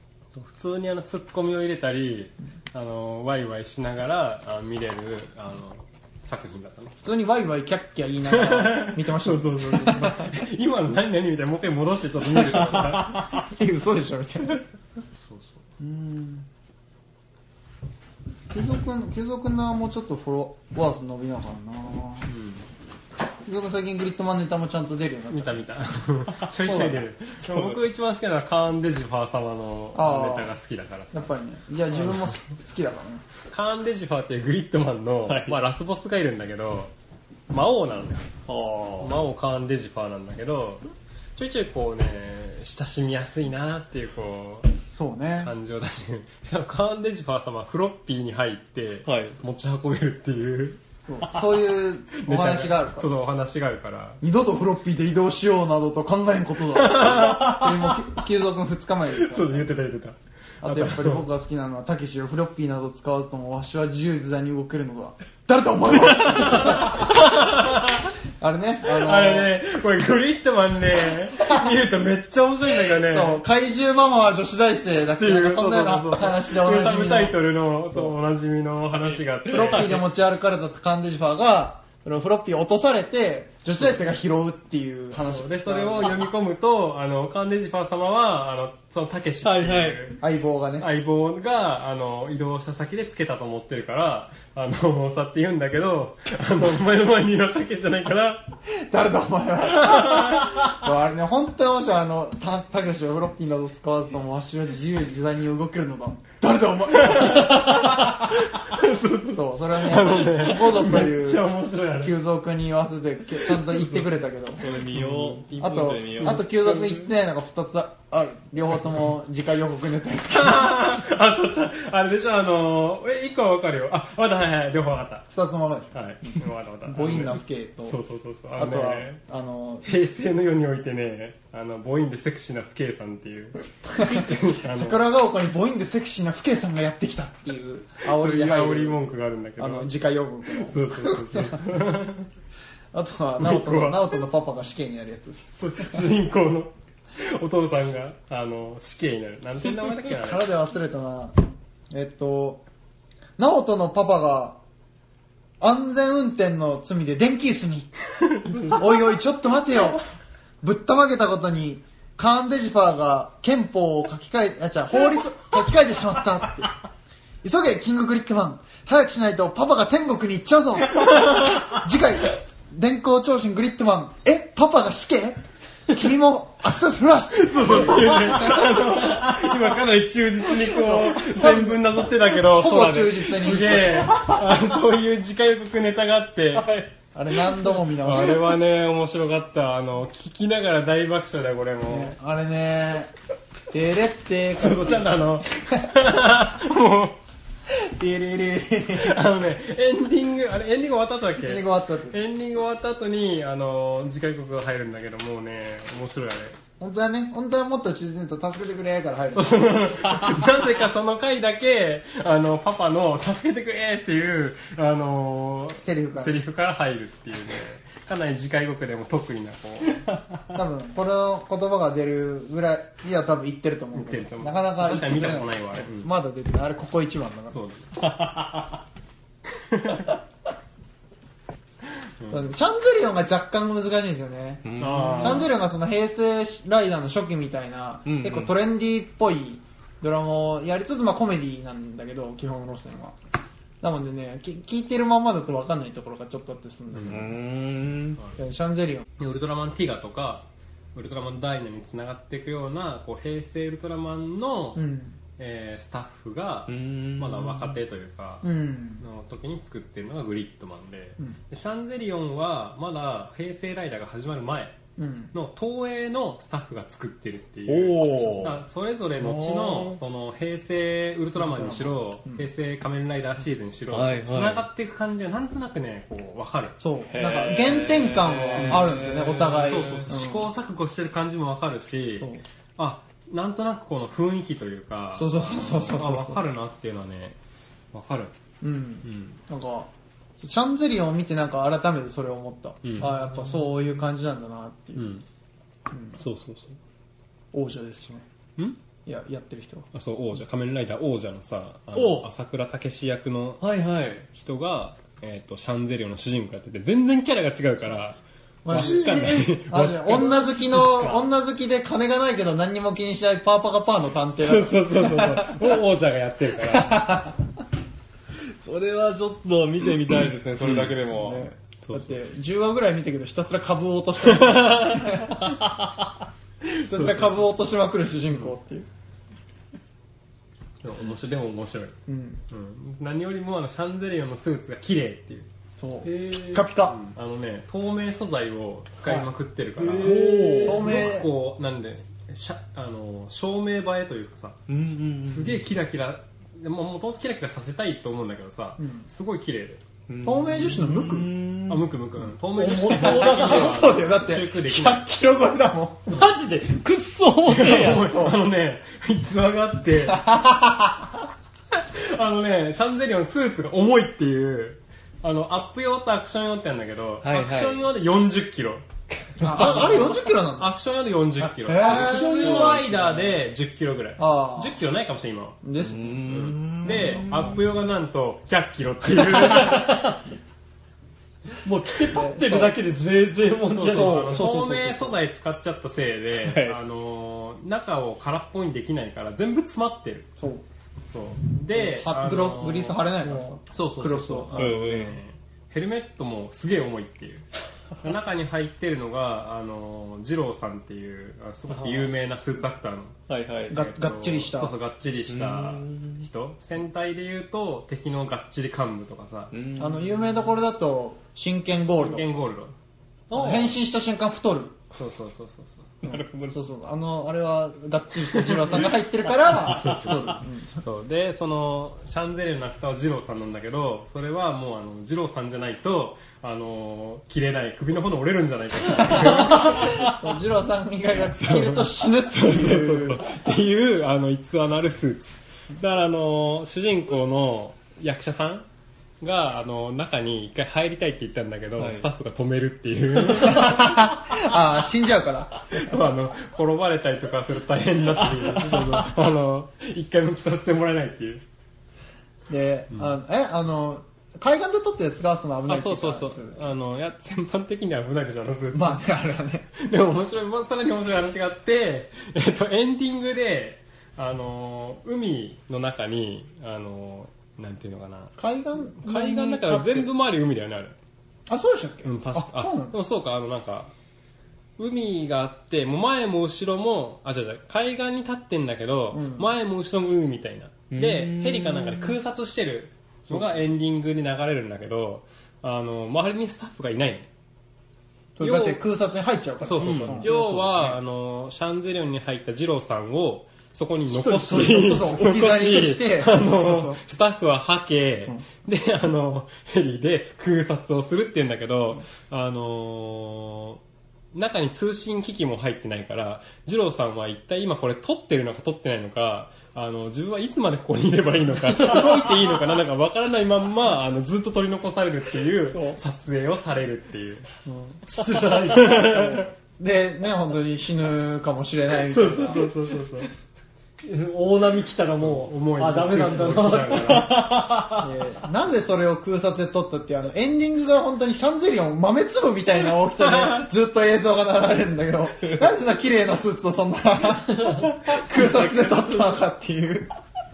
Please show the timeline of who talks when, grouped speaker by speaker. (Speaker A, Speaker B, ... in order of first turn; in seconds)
Speaker A: 0.3-7.0, 8.3-13.3, 22.3-22.7, 25.3-31.3, 31.9-32.3, 33.5-36.9, 37.5-38.2, 39.0-40.8, 41.4-44.7, 45.4-50.8, 52.2-54.2, 56.7-57.7, 59.1-61.2, 65.9-68.1, 68.8-73.3, 75.1-80.0, 85.1-90.2, 90.8-98.6, 99.8-100.5, 107.0-112.2, 114.9-115.4, 120.3-125.3, 125.9-129.2, 129.8-135.0, 138.0-139.9, 140.6-142.3, 143.4-144.0, 145.5-150.5, 158.3-158.8, 177.3-186.7, 188.0-192.1, 194.6-197.2, 198.9-206.6, 209.3-220.0, 223.9-226.1, 227.5-227.9, 229.6-230.1, 232.2-232.5, 234.8-235.5, 246.9-247.2, 249.2-254.8, 255.4-264.8, 265.3-276.8, 278.6-278.9, 279.6-287.4, 287.9-288.3, 289.0-289.4, 292.8-293.2, 294.9-295.2, 296.2-296.8, 299.9-303.6, 304.3-308.2, 308.7-311.1, 314.4-317.3, 321.8-322.2, 324.3-325.2, 326.6-327.3, 330.8-332.0, 332.5-335.5, 336.8-344.6, 345.2-349.8, 351.7-355.0, 357.4-360.2, 361.9-368.8, 369.4-375.6, 376.2-380.0, 383.7-390.3, 391.1-397.4, 398.0-403.1, 403.7-409.5, 411.8-412.7, 414.9-416.0, 419.7-430.1, 431.3-438.6, 439.2-444.0, 445.7-451.4, 455.7-459.0, 459.7-468.3, 469.0-470.9, 472.0-473.9, 474.8-487.3, 488.4-488.8, 489.6-503.8, 504.3-517.5, 518.6-519.5, 522.1-523.3, 525.2-527.4, 538.1-539.4
Speaker B: 7.0-10.4, 12.3-14.6, 15.8-16.5, 18.5-22.3, 23.4-25.6, 26.6-27.0, 29.9-30.6, 31.1-33.2, 44.9-45.5, 51.1-53.1, 54.2-59.8, 60.6-67.2, 68.4-69.5, 71.4-71.7, 72.9-77.3, 79.5-86.2, 90.2-90.9, 98.8-108.3, 109.2-111.5, 112.0-114.8, 115.6-120.7, 125.3-125.9, 126.8-128.0, 128.6-129.8, 133.8-139.0, 139.6-141.6, 142.9-146.0, 150.0-151.4, 151.9-152.6, 153.4-154.6, 155.6-157.9, 158.6-160.0, 160.6-166.7, 167.4-175.4, 175.9-178.6, 180.6-184.1, 187.1-188.5, 191.9-193.1, 193.7-195.1, 197.7-199.2, 201.4-202.2, 206.8-209.7, 215.8-216.4, 220.5-227.6, 232.3-234.6, 235.2-243.2, 243.8-247.4, 248.3-249.1, 254.8-255.2, 258.4-259.0, 265.0-265.3, 268.1-268.5, 271.4-272.4, 276.8-280.5, 285.1-286.4, 288.6-295.1, 295.9-296.2, 297.5-298.2, 299.1-299.9, 308.6-315.8, 316.6-317.4, 320.9-325.6, 326.9-328.9, 332.1-332.4, 335.8-337.0, 340.6-341.3, 348.8-349.1, 350.2-351.3, 352.8-356.2, 358.0-358.3, 360.1-361.1, 369.4-370.8, 371.6-372.8, 374.2-374.8, 375.6-376.2, 382.0-382.8, 383.8-385.2, 390.4-390.6, 391.7-394.7, 403.7-404.7, 409.8-412.2, 413.3-414.7, 416.1-420.8, 428.9-433.4, 443.3-445.6, 452.5-456.6, 458.7-459.7, 468.4-470.1, 471.5-473.0, 479.1-479.5, 488.4-490.9, 494.1-497.0, 517.6-518.0, 519.0-522.7, 528.0-540.1
Speaker C: 26.4-26.9, 27.4-27.8, 35.3-35.6, 38.5-39.2, 49.0-49.4, 79.5-79.9, 89.4-90.0, 114.6-116.5, 183.9-184.4, 186.5-186.9, 187.5-187.8, 228.0-228.8, 234.6-235.5, 238.0-238.5, 247.0-248.2, 256.7-257.8, 267.7-268.6, 269.2-270.0, 273.9-274.6, 277.1-280.0, 301.9-302.3, 303.6-304.2, 310.8-311.1, 318.6-321.5, 339.9-340.8, 344.7-345.6, 350.1-351.9, 367.2-367.8, 369.4-370.1, 372.1-373.3, 375.8-377.7, 386.4-386.8, 394.5-395.2, 403.3-403.8, 405.3-406.2, 409.5-410.5, 413.3-413.8, 416.0-416.6, 418.3-418.9, 419.4-420.1, 441.8-442.1, 448.4-449.0, 480.9-482.1, 483.3-483.5, 489.8-490.8, 526.9-528.0
Speaker D: 336.0-336.7, 339.8-341.1, 352.5-354.0, 356.1-358.2, 371.8-372.9, 379.4-380.2, 381.6-384.5, 515.7-516.0, 518.1-519.2, 524.0-527.3